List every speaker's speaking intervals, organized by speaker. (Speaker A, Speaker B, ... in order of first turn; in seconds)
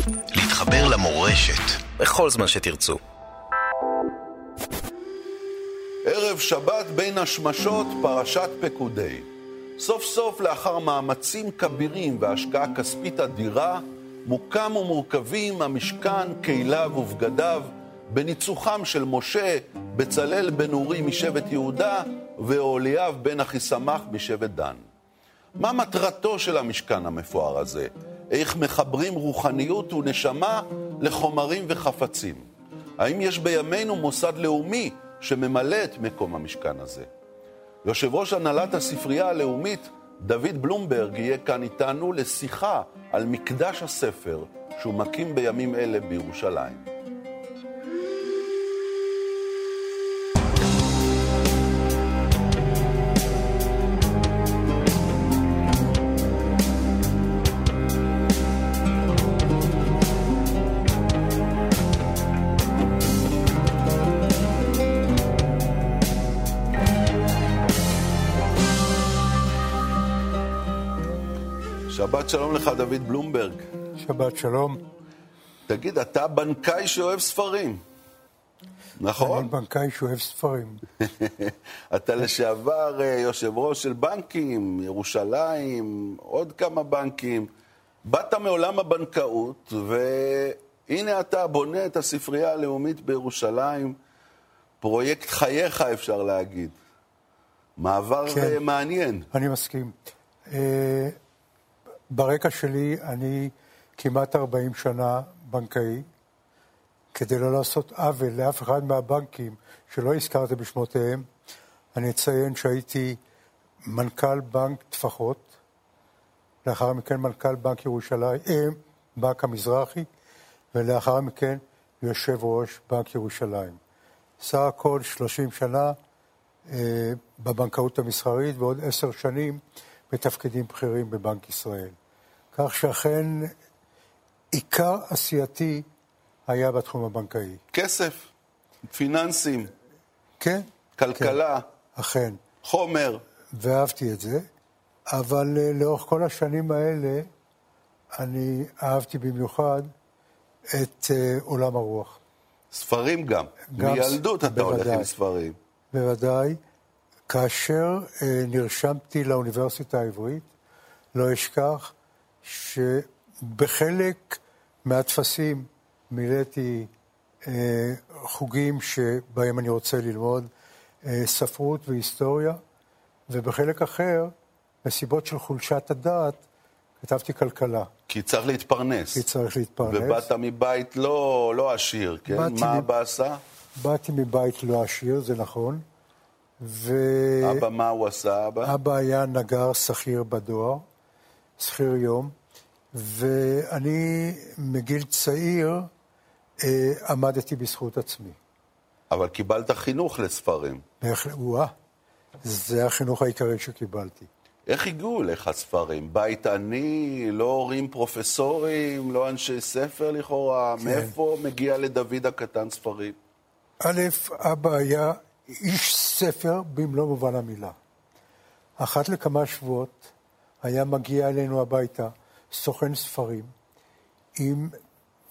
Speaker A: 0.3-3.0
Speaker B: 6.0-24.9, 25.6-37.1, 37.8-46.8, 71.9-73.7, 75.7-77.8, 79.0-79.5, 81.0-87.5, 88.0-94.0, 94.8-96.8, 97.8-99.3, 137.7-138.3, 138.9-139.7, 141.0-141.7, 142.6-143.2, 152.7-155.6, 178.1-179.2, 179.8-183.4, 187.4-188.7, 199.1-200.8, 204.7-213.2
Speaker C: 74.0-74.8, 79.2-80.8, 98.3-98.6, 99.3-99.9, 100.5-101.2, 102.1-106.1, 107.1-111.3, 111.9-113.2, 113.8-115.5, 116.7-120.1, 120.7-123.8, 124.4-126.0, 126.7-131.9, 132.5-133.5, 134.5-135.9, 136.5-137.6, 140.4-141.4, 141.9-142.4, 143.5-144.5, 145.1-147.3, 148.2-149.9, 150.7-152.2, 153.7-155.1, 155.9-156.6, 157.3-160.5, 161.2-166.9, 167.4-170.5, 171.0-172.6, 173.3-174.3, 174.8-176.4, 177.0-177.9, 179.1-180.3, 182.3-182.9, 183.8-185.8, 186.6-187.7, 188.6-190.8, 191.6-192.3, 192.9-195.9, 196.6-198.4, 201.0-201.7, 202.4-204.3, 210.8-211.1, 213.8-217.8, 218.8-223.5, 224.4-224.8